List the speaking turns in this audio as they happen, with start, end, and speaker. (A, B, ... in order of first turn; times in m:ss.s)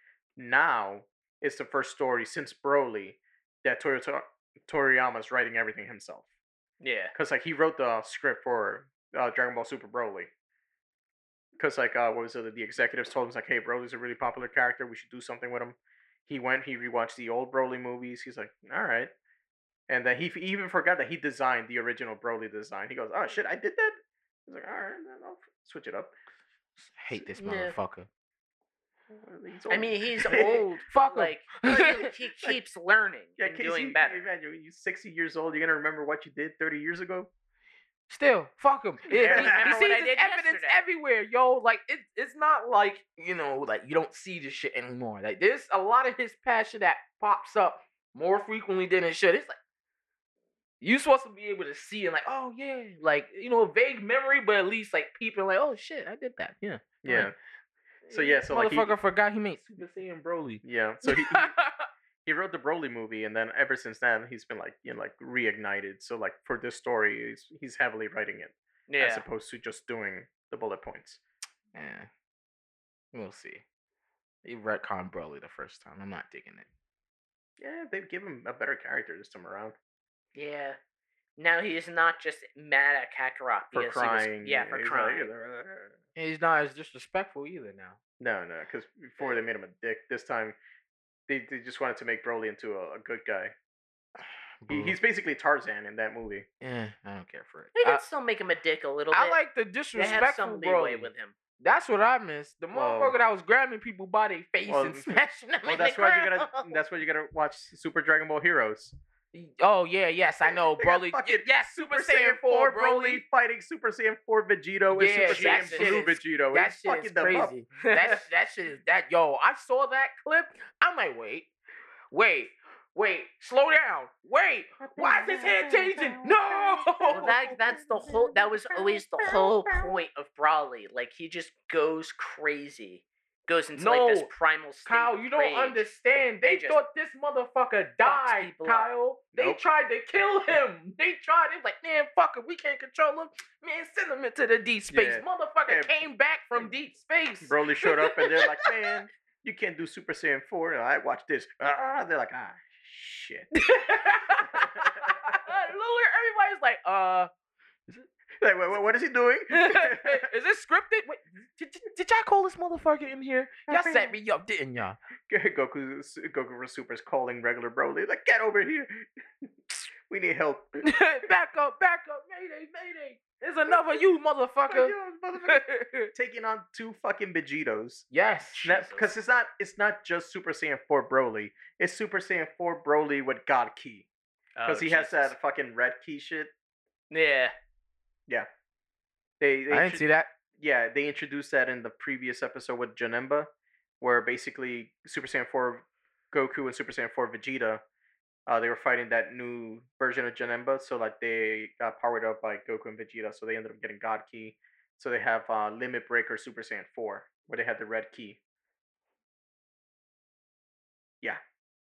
0:00.4-0:06.3 A
0:06.8-0:07.1 B
0:07.1-0:10.3 A
0:11.6-0:19.1 A
0:19.9-0:26.1 A
0:26.9-0:28.1 C
0:27.2-0:27.7 B
0:29.1-0:30.6 A
0:29.7-0:34.2 B
0:30.3-0:32.1 C
0:31.7-0:32.6 A
0:33.4-0:37.3 A
0:38.1-0:49.6 C
0:39.1-0:39.8 A
0:39.1-0:40.8 B
0:50.8-0:57.3 C
0:57.0-0:57.3 A
0:58.0-1:01.9 C
0:58.1-0:58.9 A
1:00.6-1:01.6 A
1:02.2-1:11.2 A
1:08.9-1:09.2 B
1:11.7-1:12.1 C
1:13.1-1:13.6 C
1:14.4-1:16.7 C
1:17.6-1:19.7 A
1:20.3-1:20.8 B
1:21.4-1:25.3 B
1:23.7-1:26.0 A
1:26.2-1:28.0 C
1:28.2-1:30.6 A
1:31.3-1:33.5 A
1:34.6-1:35.0 C
1:34.7-1:36.5 A
1:36.6-1:38.0 C
1:37.7-1:39.4 B
1:39.1-1:46.4 C
1:39.9-1:41.3 B
1:42.7-1:43.2 A
1:44.7-1:48.9 A
1:45.8-1:46.7 B
1:49.3-1:53.2 C
1:50.4-1:57.5 A
1:54.9-2:01.5 C
1:55.2-1:56.0 B
1:57.8-1:58.2 B
2:02.1-2:07.3 C
2:04.9-2:09.9 A
2:07.1-2:15.8 B
2:13.8-2:14.3 C
2:14.8-2:28.9 C
2:16.4-2:16.8 B
2:18.0-2:18.9 B
2:24.9-2:25.9 A
2:27.4-2:35.5 A
2:33.6-2:37.3 C
2:38.4-2:40.3 A
2:39.5-2:45.0 C
2:43.7-2:44.1 A
2:45.3-2:49.1 A
2:49.7-2:50.8 A
2:50.8-2:56.1 C
2:53.7-2:54.0 A
2:54.7-2:58.0 A
2:58.1-2:58.7 C
2:58.6-2:59.1 B
2:58.6-3:04.1 A
3:04.6-3:05.3 B
3:04.6-3:06.5 A
3:07.1-3:07.5 B
3:09.4-3:10.0 A
3:09.7-3:10.3 C
3:10.6-3:17.8 A
3:18.5-3:28.4 A